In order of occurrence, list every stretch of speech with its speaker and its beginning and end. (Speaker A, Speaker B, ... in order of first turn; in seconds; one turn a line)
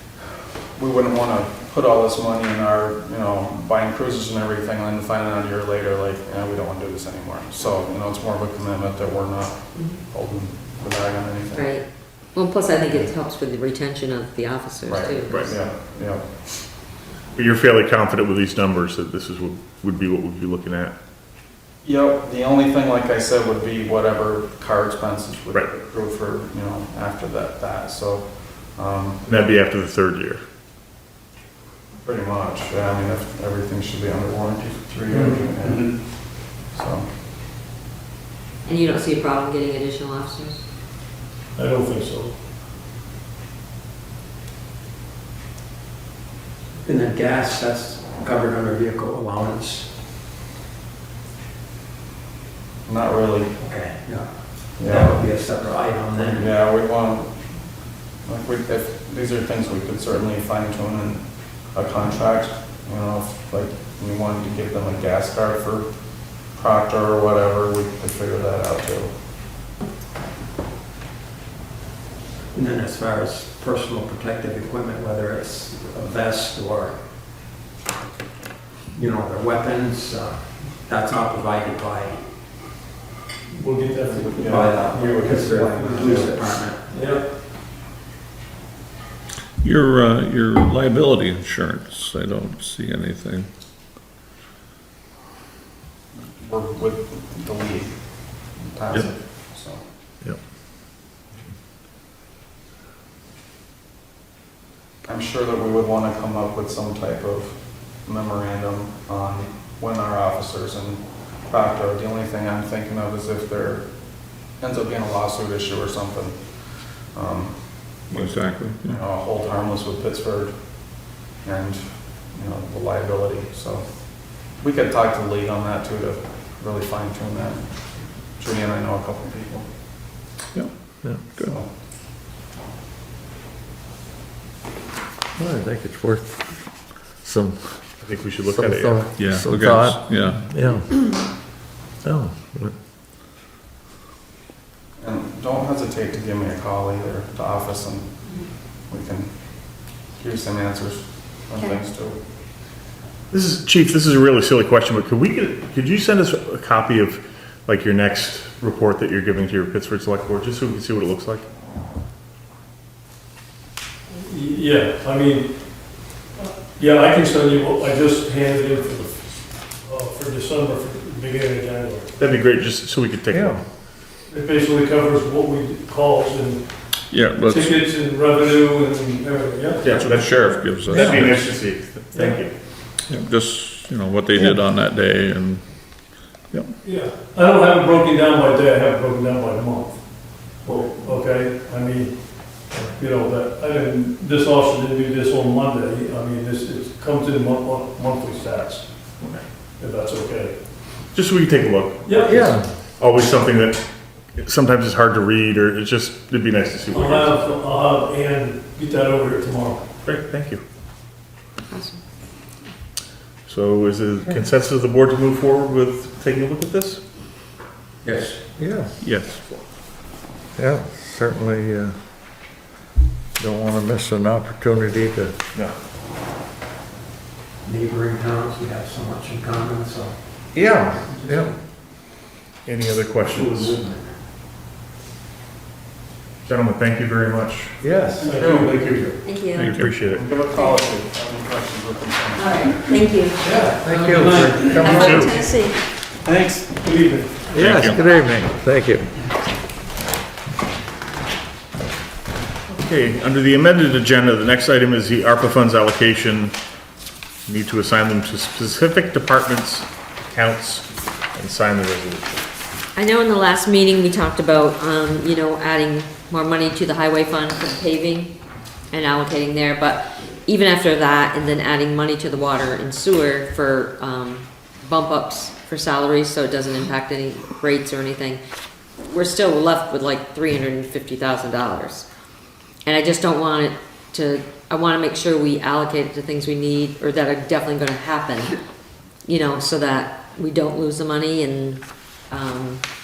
Speaker A: 0.8-12.1
Speaker B: 11.5-15.6
Speaker A: 14.9-16.6
Speaker C: 17.3-20.9
Speaker A: 21.8-29.6
Speaker C: 29.3-30.4
Speaker A: 32.0-37.1
Speaker D: 35.1-35.5
Speaker B: 38.6-40.6
Speaker D: 41.5-42.3
Speaker E: 46.8-49.9
Speaker A: 52.8-53.5
Speaker E: 53.6-56.5
Speaker A: 54.8-55.2
Speaker A: 56.2-57.5
Speaker A: 58.2-69.1
Speaker E: 72.5-77.1
Speaker E: 78.9-82.2
Speaker D: 83.5-86.3
Speaker A: 84.1-86.4
Speaker E: 84.3-86.9
Speaker D: 86.9-87.3
Speaker F: 89.6-93.5
Speaker A: 96.1-99.8
Speaker A: 105.0-129.7
Speaker F: 118.1-118.8
Speaker F: 130.5-131.6
Speaker A: 131.3-131.7
Speaker G: 135.3-141.4
Speaker C: 138.0-139.8
Speaker F: 139.2-140.4
Speaker G: 142.0-142.7
Speaker A: 145.0-152.2
Speaker C: 153.3-161.4
Speaker D: 164.2-172.1
Speaker C: 172.2-173.6
Speaker G: 173.3-173.6
Speaker D: 174.2-182.5
Speaker F: 177.1-177.7
Speaker C: 179.8-182.6
Speaker F: 180.5-181.3
Speaker F: 183.2-186.7
Speaker D: 186.8-199.2
Speaker C: 199.2-199.4
Speaker D: 199.8-200.5
Speaker C: 201.0-207.4
Speaker D: 202.0-202.8
Speaker G: 202.2-202.7
Speaker D: 206.9-209.8
Speaker C: 210.0-210.6
Speaker B: 211.7-212.0
Speaker C: 213.4-217.0
Speaker E: 218.0-218.4
Speaker G: 218.6-218.9
Speaker C: 219.0-219.6
Speaker G: 220.5-222.0
Speaker G: 223.3-225.4
Speaker E: 227.6-230.2
Speaker G: 230.5-231.5
Speaker C: 232.6-233.9
Speaker D: 233.4-233.7
Speaker C: 236.4-237.8
Speaker G: 237.8-238.3
Speaker D: 238.2-239.1
Speaker A: 238.3-239.2
Speaker B: 239.2-239.7
Speaker C: 239.5-240.3
Speaker A: 240.1-242.8
Speaker B: 242.4-243.4
Speaker D: 243.4-245.3
Speaker G: 243.8-245.4
Speaker C: 244.9-245.4
Speaker A: 246.2-246.7
Speaker D: 246.8-247.5
Speaker G: 247.5-249.2
Speaker C: 247.5-248.0
Speaker C: 252.7-256.6
Speaker C: 257.4-262.4
Speaker B: 262.9-268.3
Speaker B: 268.9-278.4
Speaker B: 279.0-282.1
Speaker B: 282.9-288.6
Speaker B: 289.2-292.8